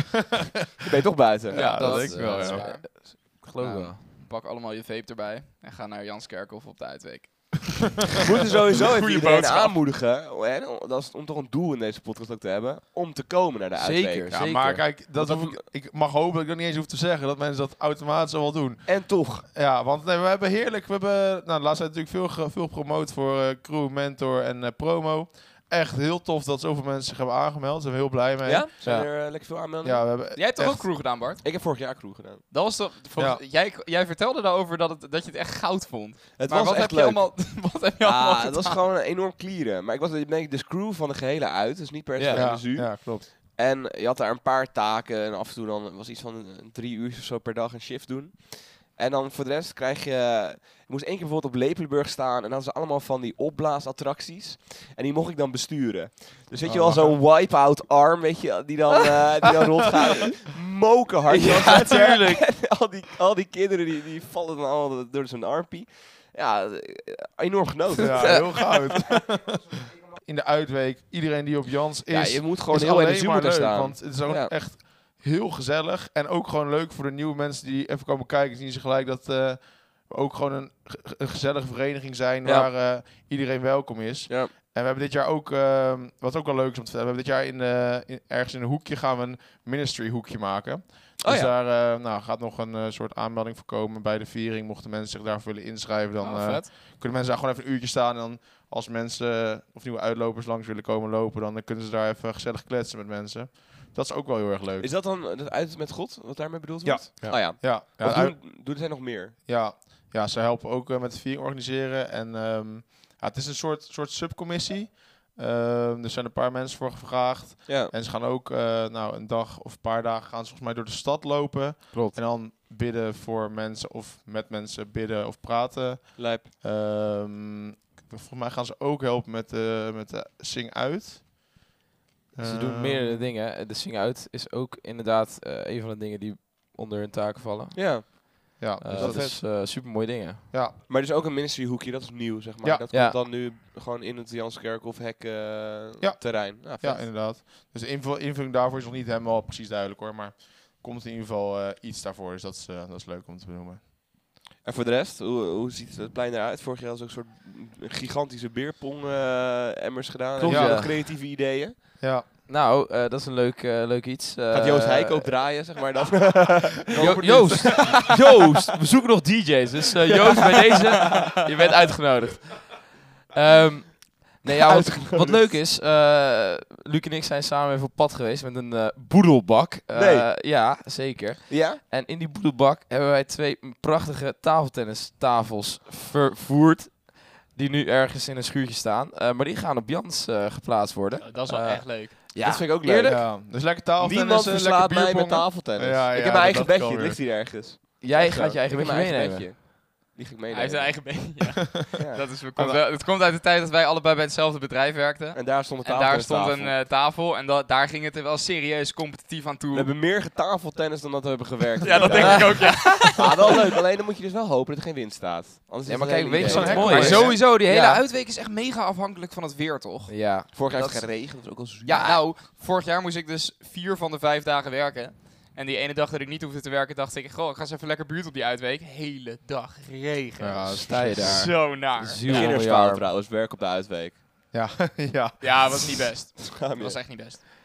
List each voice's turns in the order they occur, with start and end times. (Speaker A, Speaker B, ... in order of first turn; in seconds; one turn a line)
Speaker A: 0.8-1.6
Speaker B: 1.5-2.8
Speaker C: 1.5-8.2
Speaker D: 1.6-4.0
Speaker A: 8.2-14.5
Speaker C: 8.7-9.8
Speaker D: 13.8-14.8
Speaker B: 14.3-30.9
Speaker A: 15.1-15.6
Speaker A: 18.8-19.4
Speaker A: 28.4-30.0
Speaker C: 30.3-31.4
Speaker A: 31.4-32.5
Speaker C: 32.5-38.8
Speaker B: 33.1-33.4
Speaker A: 36.4-68.5
Speaker D: 42.2-42.5
Speaker B: 42.3-43.3
Speaker B: 56.6-57.2
Speaker D: 61.3-62.5
Speaker B: 68.0-104.9
Speaker D: 68.2-69.0
Speaker A: 72.1-74.5
Speaker A: 84.3-84.5
Speaker A: 91.2-91.5
Speaker C: 96.2-96.7
Speaker A: 104.8-109.3
Speaker D: 106.8-107.4
Speaker B: 106.9-108.4
Speaker B: 109.4-131.7
Speaker A: 117.7-117.9
Speaker D: 121.9-122.2
Speaker A: 126.2-126.5
Speaker B: 132.3-133.3
Speaker D: 132.4-140.4
Speaker A: 137.7-139.4
Speaker B: 138.6-139.7
Speaker B: 140.5-140.8
Speaker A: 140.9-147.1
Speaker D: 142.9-143.2
Speaker B: 146.0-153.8
Speaker A: 154.6-161.8
Speaker D: 160.4-160.9
Speaker B: 160.4-161.1
Speaker B: 162.0-162.3
Speaker D: 162.5-165.3
Speaker A: 164.5-168.2
Speaker D: 166.9-193.2
Speaker A: 170.3-170.8
Speaker A: 174.5-175.5
Speaker A: 179.9-180.3
Speaker A: 181.5-181.8
Speaker C: 191.2-192.1
Speaker A: 192.3-201.2
Speaker B: 192.9-197.2
Speaker D: 198.0-199.5
Speaker C: 200.5-209.9
Speaker A: 201.9-202.2
Speaker B: 202.6-202.8
Speaker A: 205.3-206.8
Speaker A: 209.7-217.4
Speaker C: 211.8-213.5
Speaker D: 212.2-213.1
Speaker D: 215.8-218.0
Speaker B: 216.4-217.4
Speaker C: 216.6-220.3
Speaker D: 220.1-221.1
Speaker A: 220.5-222.2
Speaker C: 221.8-232.5
Speaker B: 230.4-231.4
Speaker D: 230.7-233.1
Speaker A: 232.2-234.2
Speaker B: 234.5-236.1
Speaker C: 235.4-237.4
Speaker A: 236.5-237.0